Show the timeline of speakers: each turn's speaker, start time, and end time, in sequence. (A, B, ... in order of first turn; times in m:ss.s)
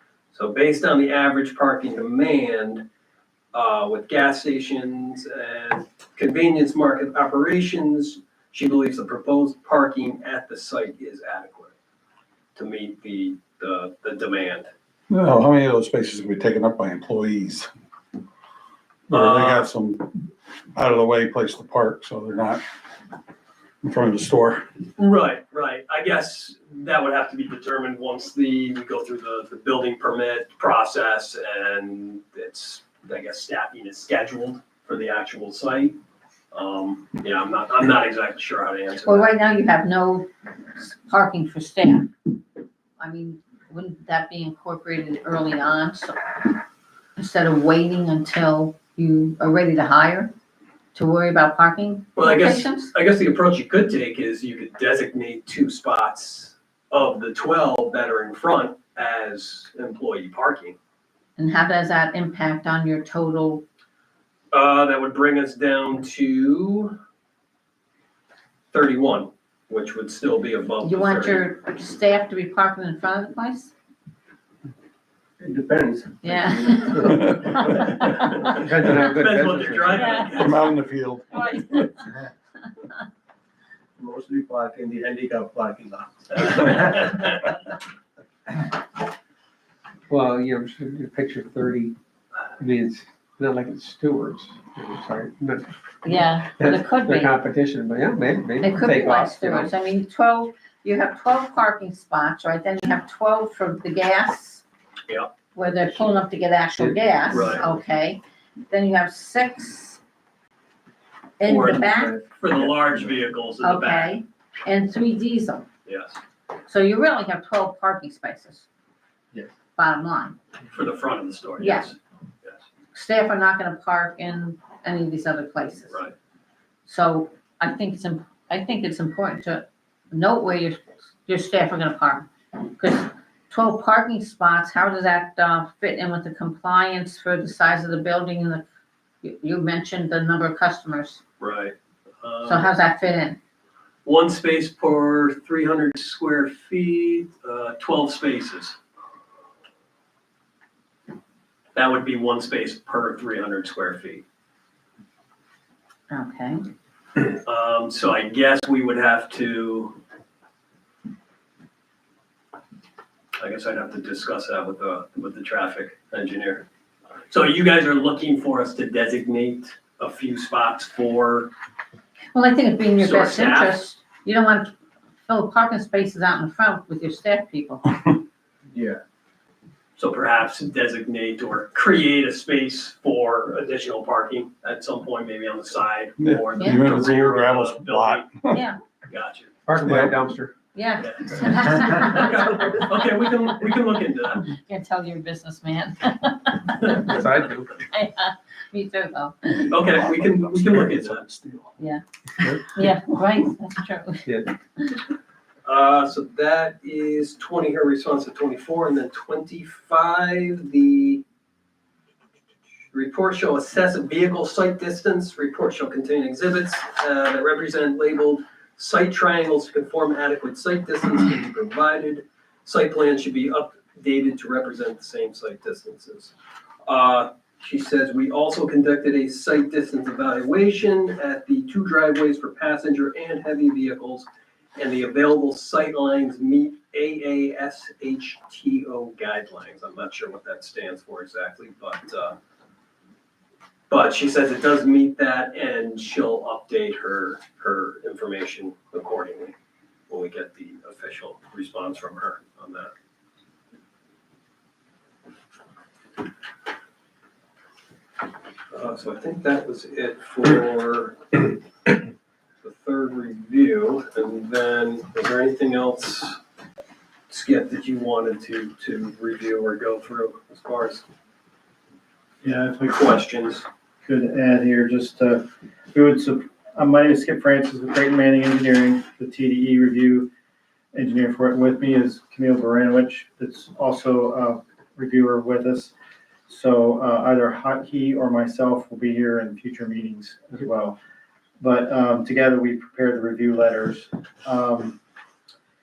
0:00.3-0:02.8 A
0:03.5-0:11.7 A
0:12.6-0:14.7 A
0:15.1-0:17.7 B
0:19.1-0:20.1 B
0:19.1-0:19.7 A
0:20.8-0:22.6 B
0:23.8-0:24.6 B
0:25.0-0:36.0 A
0:36.5-0:39.3 A
0:39.0-0:42.1 C
0:43.0-0:46.6 C
0:47.2-0:50.3 C
0:50.9-0:52.9 C
0:52.2-1:00.8 A
1:01.4-1:03.6 C
1:04.5-1:07.0 A
1:08.7-1:11.5 A
1:10.8-1:13.7 C
1:15.4-1:17.6 D
1:16.2-1:18.5 C
1:18.0-1:20.7 A
1:18.5-1:20.3 E
1:19.9-1:20.3 C
1:20.3-1:21.4 B
1:21.4-1:22.0 C
1:24.0-1:27.3 D
1:26.3-1:27.4 A
1:30.1-1:31.9 E
1:32.6-1:35.7 E
1:36.0-1:37.3 C
1:36.5-1:39.7 E
1:38.6-1:44.6 C
1:45.5-1:50.0 C
1:46.7-1:47.6 E
1:47.3-1:47.6 A
1:51.4-1:52.2 C
1:51.4-1:54.2 A
1:53.6-1:55.7 C
1:55.8-1:56.2 A
1:56.7-1:58.7 C
1:59.8-2:00.4 C
2:00.7-2:02.6 A
2:01.6-2:01.9 C
2:02.9-2:06.0 C
2:06.8-2:18.6 C
2:19.2-2:21.2 C
2:21.4-2:22.7 A
2:22.4-2:23.4 C
2:24.0-2:28.8 A
2:31.7-2:34.2 A
2:36.1-2:36.6 C
2:37.2-2:40.0 A
2:43.4-2:46.6 A
2:47.3-2:51.5 A
2:52.3-2:54.7 C
2:53.0-2:53.8 A
2:55.3-2:57.9 C
2:58.7-2:59.0 D
3:00.0-3:08.3 A
3:06.2-3:08.6 B
3:06.6-3:06.8 C
3:08.5-3:08.8 C
3:09.1-3:09.5 A
3:09.6-3:10.5 E
3:09.9-3:10.1 B
3:10.7-3:12.5 C
3:11.0-3:14.5 A
3:14.6-3:17.1 C
3:17.0-3:17.8 E
3:17.8-3:19.7 C
3:19.7-3:21.2 A
3:19.8-3:21.7 B
3:21.8-3:25.0 C
3:24.2-3:24.5 E
3:25.6-3:31.2 A
3:32.9-3:46.3 A
3:46.8-4:02.4 A
4:03.9-4:09.5 A
4:10.1-4:12.9 A
4:18.7-4:21.5 A
4:22.6-4:26.4 A
4:27.3-4:31.0 A
4:32.4-4:33.2 F
4:32.9-4:33.6 A
4:34.0-4:40.3 F
4:40.9-4:45.9 F
4:46.5-4:51.0 F
4:51.6-4:55.0 F